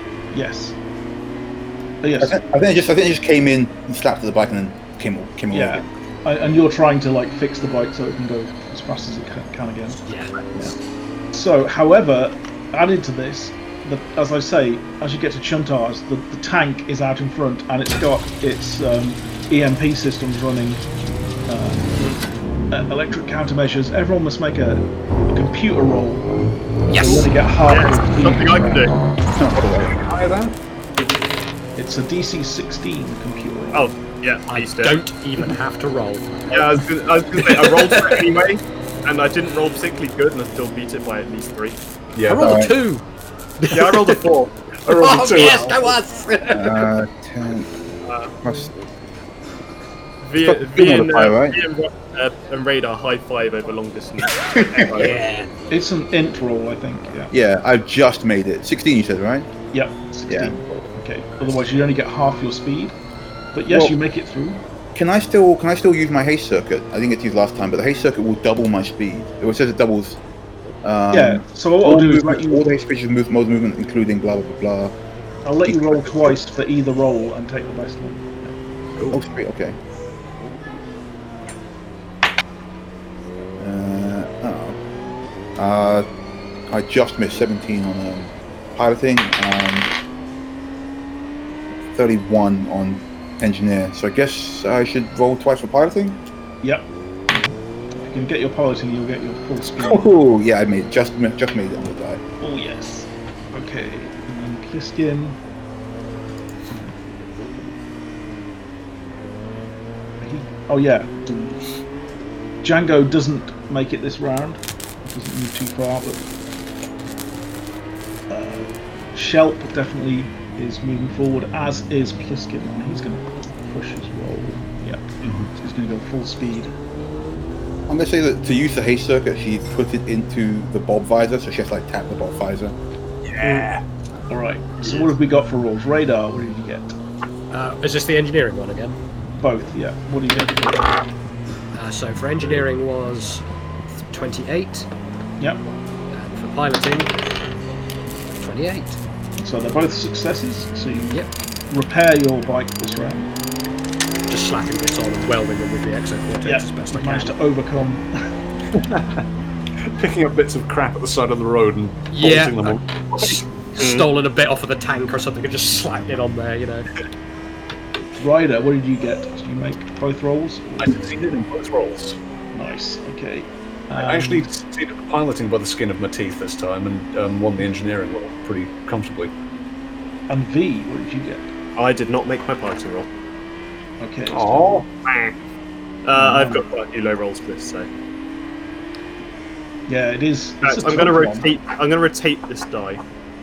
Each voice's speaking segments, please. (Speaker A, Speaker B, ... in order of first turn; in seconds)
Speaker A: 0.3-0.8, 2.0-2.4, 5.5-10.0, 11.3-20.8, 21.5-21.9, 22.7-26.3, 26.9-29.0, 31.8-33.9, 55.7-57.3, 59.7-63.0, 63.5-64.6, 71.1-72.7, 75.5-78.6, 96.6-100.1, 102.4-105.4, 106.7-107.0, 110.2-111.6, 112.6-116.2, 118.3-126.7, 133.4-133.7, 134.3-137.0, 139.4-140.8, 149.4-151.2, 151.7-153.3, 156.4-158.1, 168.2-171.0, 172.5-174.5, 180.3-181.5, 184.0-184.8, 186.1-186.6, 189.9-191.5
Speaker B: 2.2-5.8, 29.4-29.9, 42.3-42.8, 46.5-47.7, 48.4-48.7, 50.4-51.6, 54.5-54.9, 57.3-59.5, 60.3-60.5, 63.7-64.0, 65.0-70.2, 70.8-75.0, 75.7-76.3, 79.1-79.8, 83.6-84.8, 85.6-86.1, 86.7-89.9, 91.9-96.2, 99.8-102.2, 127.9-132.8
Speaker C: 10.1-10.4, 26.9-27.3, 34.5-36.8, 37.4-38.3, 42.3-43.0, 43.6-44.3, 44.9-46.9, 55.0-55.5, 137.5-139.0, 141.7-143.4, 144.1-144.9, 146.1-147.1, 148.3-149.0, 154.3-157.4, 162.1-166.9
Speaker D: 27.7-28.9, 33.7-35.0, 36.5-41.8, 43.7-44.5, 48.0-48.4, 50.2-55.2, 163.8-164.1, 181.8-183.1, 185.0-185.3, 186.1-187.9, 190.6-193.0
Speaker E: 29.6-30.6, 42.2-42.6, 44.9-46.0, 125.2-125.5, 133.2-133.8, 158.7-159.2, 159.9-163.4, 170.8-172.2, 174.0-179.3, 184.3-184.9